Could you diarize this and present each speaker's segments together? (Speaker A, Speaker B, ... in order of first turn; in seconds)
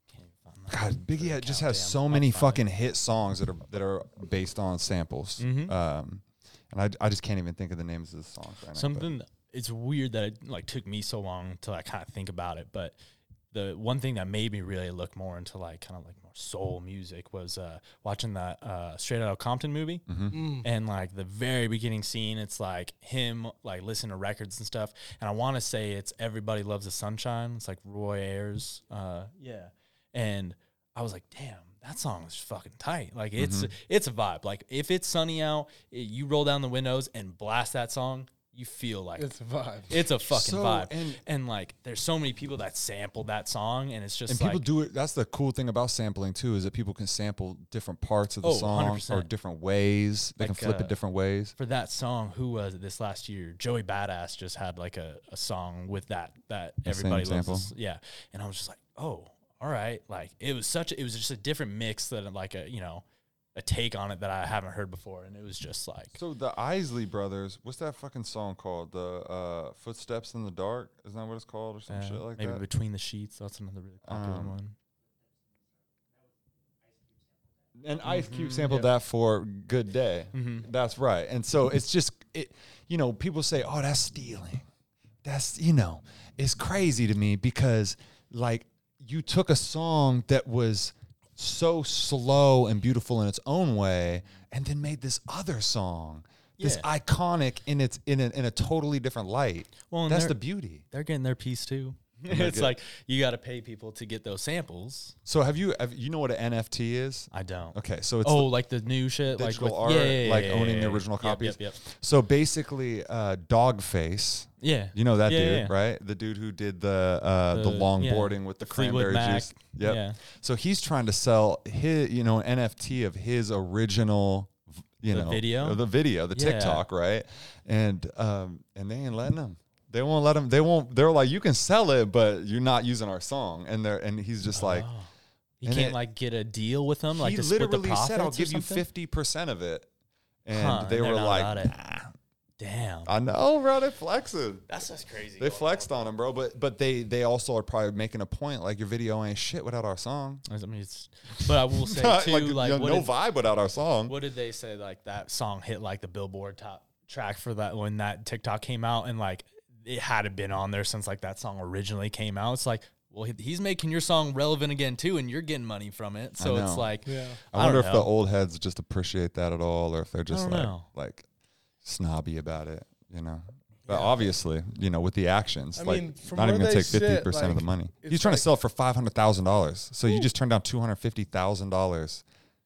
Speaker A: 0.1-2.6, 5.4-5.8, 8.7-13.0, 13.5-20.0, 20.6-39.3, 39.9-44.7, 48.4-49.3, 50.4-50.9, 51.6-63.0, 63.5-66.2, 71.9-74.8, 78.0-78.9, 80.3-80.7, 96.6-96.9, 99.9-105.2, 107.3-111.8, 114.6-115.8, 117.5-120.2, 125.1-125.8, 126.3-126.8, 134.5-135.1, 135.6-138.9, 140.5-141.7, 142.6-143.1, 144.7-146.1, 150.5-153.1, 154.1-168.1, 170.3-170.9
Speaker B: 0.7-9.1, 20.1-20.4, 33.4-33.7, 40.3-41.2, 44.3-51.5, 56.9-57.7, 66.2-72.6, 74.0-74.6, 77.8-84.7, 85.2-100.8, 102.3-102.7, 105.2-108.5, 109.3-134.9, 135.6-136.0, 137.1-139.9, 140.4-142.1, 143.1-144.7, 145.4-150.4, 151.5-154.1, 166.4-166.9, 167.5-171.3, 171.8-182.2
Speaker C: 20.3-20.7, 39.2-39.9, 167.1-167.4, 173.9-174.2, 175.8-178.5